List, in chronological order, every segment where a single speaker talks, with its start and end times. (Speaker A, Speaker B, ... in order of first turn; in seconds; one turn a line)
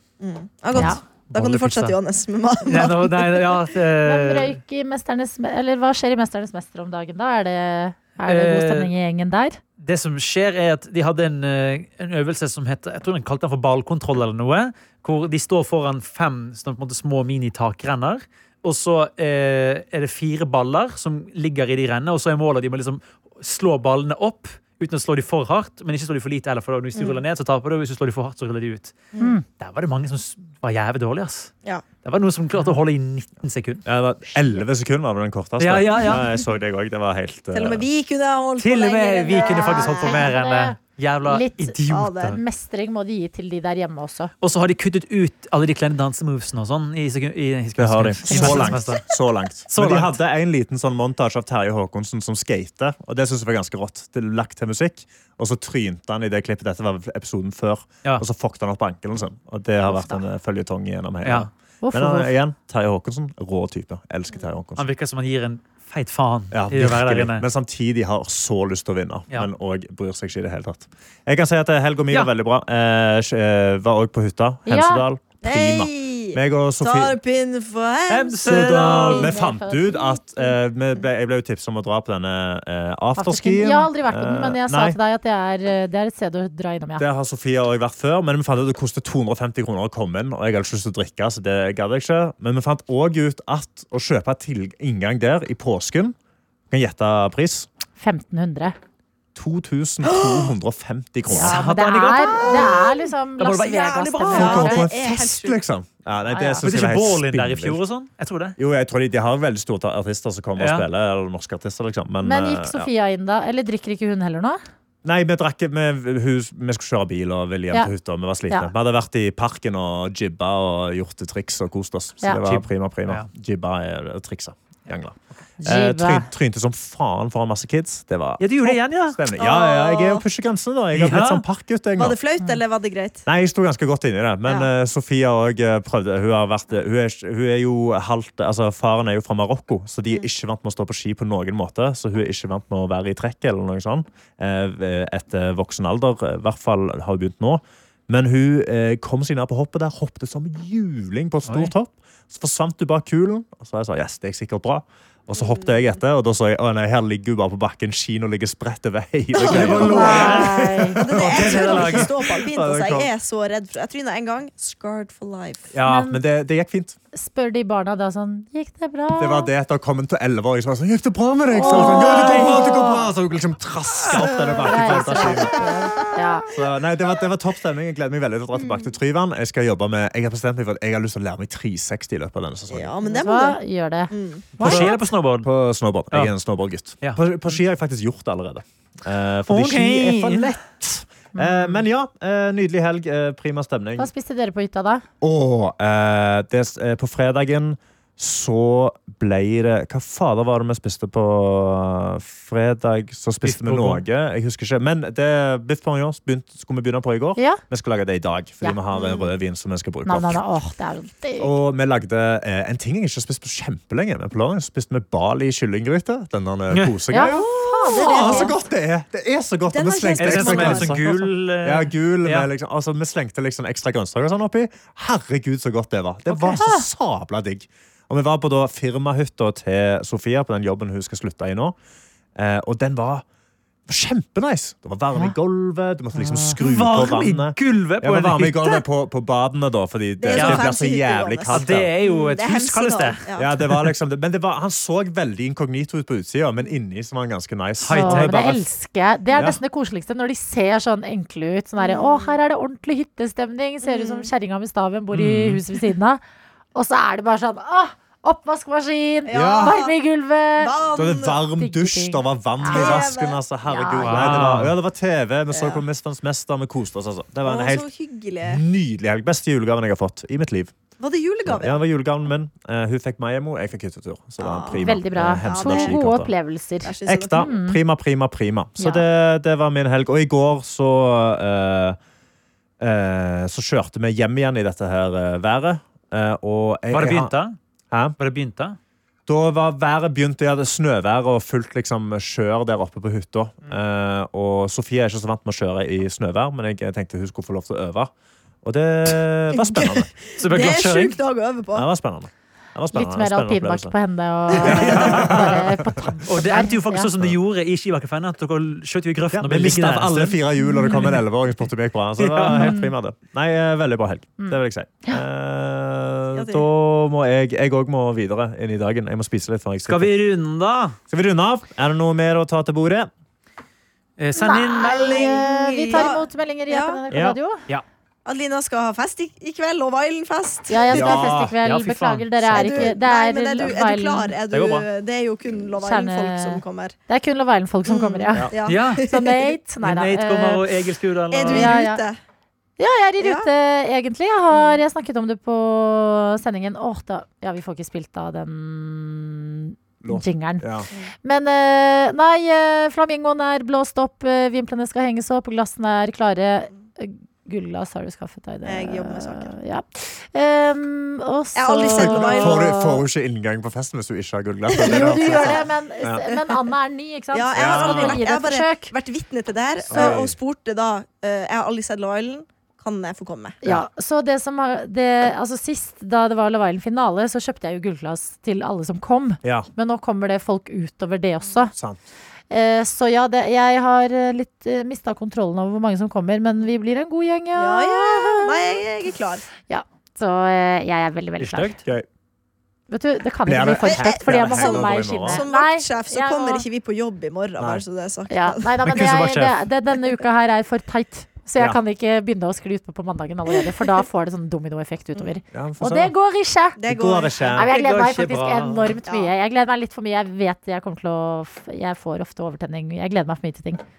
Speaker A: 0.2-3.7
Speaker B: 0.7-1.0
Speaker C: 1.3-2.0
Speaker C: 2.6-4.6
Speaker B: 4.0-9.6
Speaker C: 8.2-8.9
Speaker C: 9.8-28.9
Speaker C: 29.5-31.5
Speaker C: 32.0-33.9
Speaker D: 33.9-37.9
Speaker C: 35.6-36.3
Speaker A: 37.5-40.3
Speaker C: 38.6-42.4
Speaker B: 39.3-44.3
Speaker A: 41.9-42.4
Speaker C: 44.4-49.1
Speaker D: 47.8-64.8
Speaker C: 49.7-50.2
Speaker B: 59.9-60.2
Speaker C: 61.2-61.5
Speaker B: 61.8-62.3
Speaker C: 64.8-67.4
Speaker D: 66.5-77.2
Speaker B: 74.7-75.0
Speaker A: 75.4-78.7
Speaker C: 78.1-79.3
Speaker D: 78.4-85.0
Speaker B: 78.7-80.5
Speaker B: 83.2-87.0
Speaker D: 87.0-96.2
Speaker D: 96.7-97.7
Speaker B: 98.0-98.8
Speaker D: 99.3-101.6
Speaker A: 100.0-100.5
Speaker B: 101.3-104.8
Speaker C: 101.3-102.8
Speaker A: 102.3-103.0
Speaker C: 103.4-104.8
Speaker A: 103.7-105.6
Speaker D: 104.3-107.8
Speaker B: 106.3-106.6
Speaker C: 106.6-108.6
Speaker D: 108.6-112.9
Speaker C: 110.6-110.8
Speaker B: 112.2-114.6
Speaker D: 115.0-132.2
Speaker C: 122.5-123.3
Speaker B: 125.6-126.3
Speaker C: 128.4-129.2
Speaker A: 129.3-130.2
Speaker C: 130.9-131.4
Speaker A: 132.0-133.2
Speaker D: 133.2-163.1
Speaker C: 151.5-151.7
Speaker A: 155.3-155.9
Speaker A: 159.3-165.7
Speaker C: 159.5-162.2
Speaker B: 159.5-161.0
Speaker D: 165.7-167.0
Speaker C: 165.8-166.0
Speaker B: 165.8-166.2
Speaker B: 167.1-169.5
Speaker D: 169.2-175.9
Speaker B: 171.5-173.1
Speaker A: 171.5-173.0
Speaker A: 174.0-176.5
Speaker B: 174.1-176.5
Speaker D: 176.5-182.9
Speaker A: 178.5-178.9
Speaker A: 182.7-183.6
Speaker B: 183.0-185.0
Speaker A: 184.1-184.5
Speaker C: 184.6-185.5
Speaker D: 184.6-194.1
Speaker C: 189.5-190.7
Speaker B: 191.3-191.8
Speaker B: 194.0-195.0
Speaker D: 195.2-210.4
Speaker C: 203.4-204.0
Speaker A: 208.9-209.3
Speaker B: 210.0-211.5
Speaker D: 211.4-231.7
Speaker B: 217.1-218.6
Speaker A: 217.2-218.5
Speaker A: 219.7-221.0
Speaker C: 220.2-222.5
Speaker B: 226.4-226.8
Speaker D: 232.3-233.2
Speaker D: 233.9-241.9
Speaker C: 236.1-238.8
Speaker A: 240.2-243.5
Speaker C: 240.3-240.7
Speaker C: 241.5-243.8
Speaker D: 243.3-248.4
Speaker C: 247.8-248.6
Speaker B: 247.9-256.2
Speaker D: 249.3-249.6
Speaker A: 251.8-252.4
Speaker A: 253.8-254.3
Speaker C: 255.1-255.6
Speaker B: 256.7-260.7
Speaker A: 259.2-259.9
Speaker D: 259.3-259.8
Speaker A: 260.6-261.4
Speaker D: 260.9-267.9
Speaker B: 261.6-263.1
Speaker A: 262.7-263.4
Speaker B: 263.7-264.4
Speaker C: 264.0-264.7
Speaker A: 265.5-265.8
Speaker A: 267.4-268.6
Speaker D: 268.4-270.7
Speaker A: 271.0-271.8
Speaker D: 271.4-276.3
Speaker A: 274.4-276.0
Speaker B: 274.8-277.8
Speaker A: 276.8-277.5
Speaker D: 277.1-282.0
Speaker B: 278.8-279.0
Speaker D: 282.8-287.3
Speaker C: 286.9-287.6
Speaker D: 287.9-288.1
Speaker C: 288.2-288.8
Speaker D: 289.2-298.1
Speaker D: 298.6-300.1
Speaker A: 299.5-301.9
Speaker C: 300.4-301.2
Speaker D: 301.7-303.9
Speaker B: 302.9-307.1
Speaker A: 304.5-305.1
Speaker D: 304.6-306.1
Speaker C: 304.7-305.3
Speaker C: 306.2-310.4
Speaker D: 309.3-320.1
Speaker B: 310.6-311.2
Speaker C: 312.2-312.8
Speaker B: 312.5-312.9
Speaker B: 314.4-315.2
Speaker A: 316.3-316.6
Speaker C: 319.9-320.9
Speaker D: 321.1-323.1
Speaker C: 324.2-325.3
Speaker B: 324.4-327.6
Speaker A: 324.8-327.0
Speaker D: 327.1-327.4
Speaker A: 328.2-331.1
Speaker B: 330.7-334.3
Speaker D: 330.9-331.5
Speaker C: 331.6-332.8
Speaker A: 332.5-336.9
Speaker C: 334.5-334.9
Speaker B: 335.8-340.6
Speaker A: 337.9-339.5
Speaker D: 338.3-338.6
Speaker C: 338.6-339.0
Speaker C: 339.8-341.8
Speaker A: 341.3-342.2
Speaker B: 341.4-342.0
Speaker B: 342.8-350.7
Speaker A: 343.2-343.5
Speaker A: 344.5-344.8
Speaker D: 350.0-350.9
Speaker B: 351.2-363.0
Speaker A: 358.6-359.5
Speaker A: 361.6-362.9
Speaker D: 361.8-366.3
Speaker A: 364.7-365.7
Speaker B: 364.8-368.9
Speaker A: 367.3-373.6
Speaker D: 367.5-368.2
Speaker D: 369.9-370.3
Speaker B: 373.6-381.7
Speaker D: 379.4-379.7
Speaker D: 381.7-382.0
Speaker B: 382.5-388.8
Speaker A: 387.5-389.4
Speaker B: 389.7-391.8
Speaker C: 391.4-391.8
Speaker B: 392.9-396.6
Speaker D: 393.4-395.4
Speaker A: 393.8-398.8
Speaker B: 398.3-406.8
Speaker C: 398.8-399.6
Speaker D: 405.5-406.1
Speaker A: 406.8-407.6
Speaker D: 406.8-407.7
Speaker B: 407.5-413.8
Speaker C: 407.6-409.0
Speaker A: 409.1-409.3